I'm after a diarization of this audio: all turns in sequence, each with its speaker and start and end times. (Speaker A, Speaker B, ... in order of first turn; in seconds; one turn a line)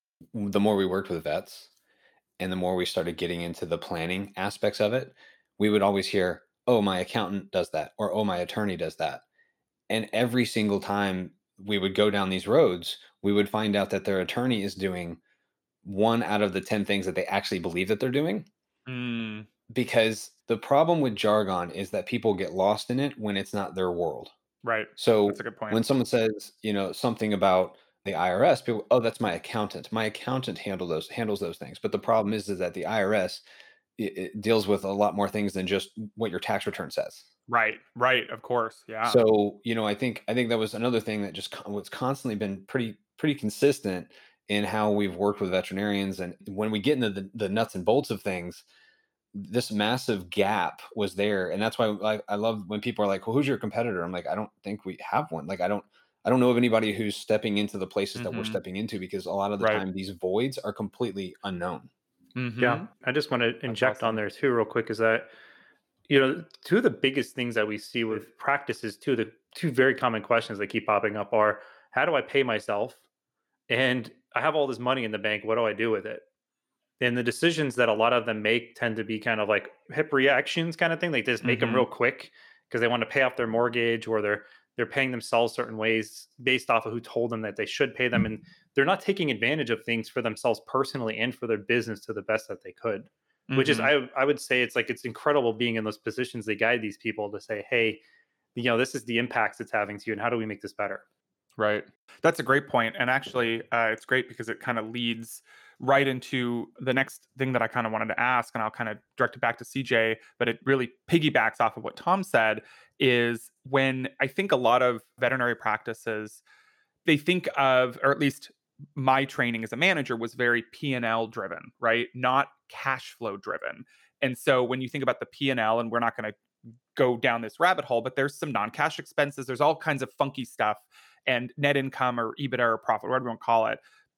Speaker A: 0.3-1.7
Speaker A: 2.4-9.2
Speaker A: 9.9-15.2
Speaker A: 15.8-18.5
Speaker B: 18.9-19.5
Speaker A: 19.7-24.3
Speaker B: 24.6-25.8
Speaker A: 25.0-33.4
Speaker A: 34.0-37.3
Speaker B: 37.5-39.2
Speaker A: 39.0-48.6
Speaker A: 49.4-61.9
Speaker B: 58.2-58.6
Speaker B: 62.4-62.9
Speaker C: 62.6-65.3
Speaker B: 63.7-64.2
Speaker C: 66.1-73.0
Speaker C: 73.7-76.2
Speaker C: 77.0-98.0
Speaker B: 81.4-81.9
Speaker B: 93.5-93.9
Speaker C: 98.6-101.0
Speaker B: 101.6-116.4
Speaker B: 117.1-126.3
Speaker B: 127.0-133.8